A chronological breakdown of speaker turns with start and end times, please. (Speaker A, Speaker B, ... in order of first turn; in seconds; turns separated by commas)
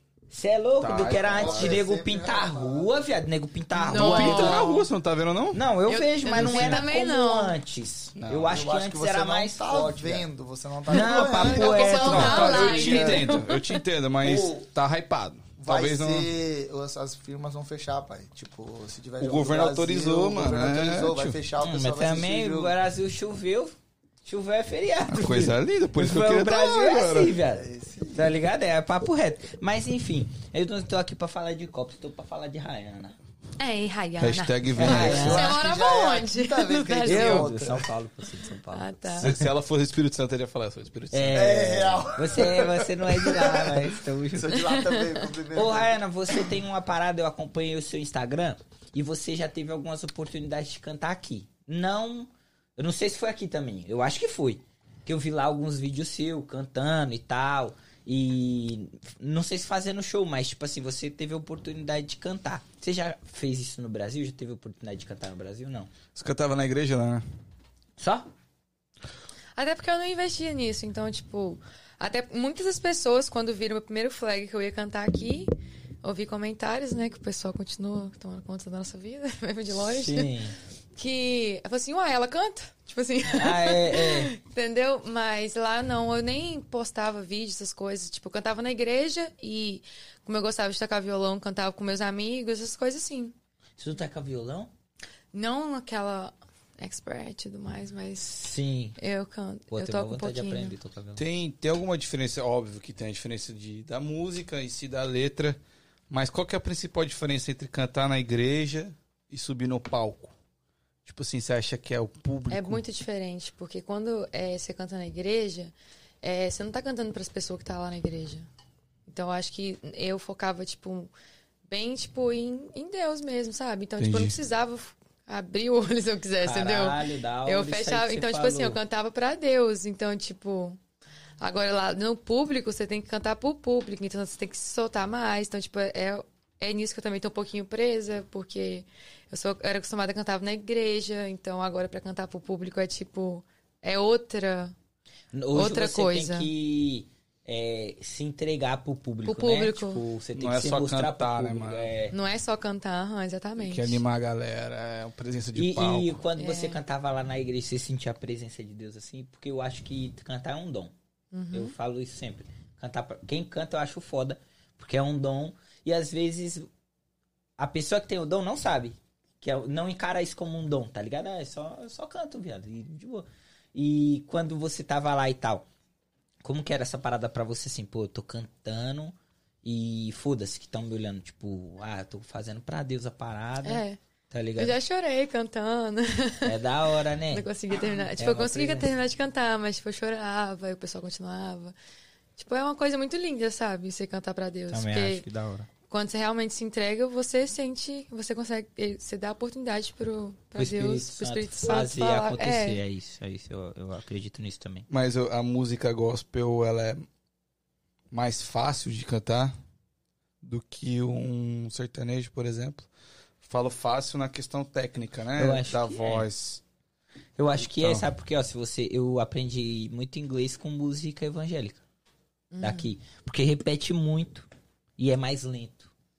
Speaker A: 0.3-4.7, Speaker B: 0.8-1.8, Speaker C: 1.2-2.9, Speaker D: 3.8-4.9, Speaker B: 3.9-5.6, Speaker A: 5.5-10.3, Speaker D: 5.9-7.6, Speaker B: 6.3-6.8, Speaker B: 8.2-8.6, Speaker C: 8.4-13.4, Speaker A: 10.9-12.8, Speaker D: 11.0-13.7, Speaker B: 11.9-16.3, Speaker C: 14.2-14.7, Speaker C: 15.6-22.8, Speaker B: 19.2-21.4, Speaker A: 21.6-33.2, Speaker B: 25.1-27.4, Speaker C: 27.4-28.3, Speaker D: 33.6-37.5, Speaker B: 34.2-35.4, Speaker A: 34.8-35.6, Speaker C: 34.8-37.9, Speaker A: 37.1-39.2, Speaker D: 38.7-39.4, Speaker B: 39.2-41.6, Speaker A: 41.1-44.8, Speaker C: 41.3-46.0, Speaker A: 45.5-65.9, Speaker B: 66.2-67.2, Speaker A: 68.0-68.3, Speaker D: 69.6-75.5, Speaker D: 76.0-80.3, Speaker A: 79.8-80.6, Speaker D: 81.0-93.3, Speaker A: 83.3-84.3, Speaker A: 93.8-94.7, Speaker D: 95.3-98.4, Speaker A: 98.2-99.0, Speaker D: 99.0-100.8, Speaker A: 99.7-101.2, Speaker B: 101.2-110.3, Speaker B: 111.0-112.8, Speaker D: 112.5-118.5, Speaker D: 119.1-121.1, Speaker D: 121.7-130.8, Speaker B: 124.0-124.3, Speaker A: 126.4-128.8, Speaker D: 131.4-144.7, Speaker A: 145.3-152.2, Speaker D: 145.5-146.5, Speaker D: 149.3-150.0, Speaker B: 150.3-151.9, Speaker D: 152.1-154.0, Speaker B: 153.6-156.3, Speaker A: 155.6-160.9, Speaker D: 156.4-156.8, Speaker D: 161.3-161.8, Speaker A: 161.5-166.7, Speaker A: 167.6-175.7, Speaker A: 176.4-184.8, Speaker D: 183.6-184.0, Speaker D: 184.6-186.6, Speaker A: 186.4-187.5, Speaker D: 187.3-191.8, Speaker A: 188.2-188.9, Speaker D: 192.4-195.2, Speaker A: 194.7-195.7, Speaker D: 195.8-202.8, Speaker A: 200.6-204.9, Speaker B: 204.9-207.1, Speaker B: 208.1-209.5, Speaker B: 210.4-212.9, Speaker B: 213.4-216.6, Speaker A: 215.4-216.3, Speaker A: 217.4-221.8, Speaker B: 217.6-218.1, Speaker D: 222.5-222.9, Speaker A: 222.6-225.9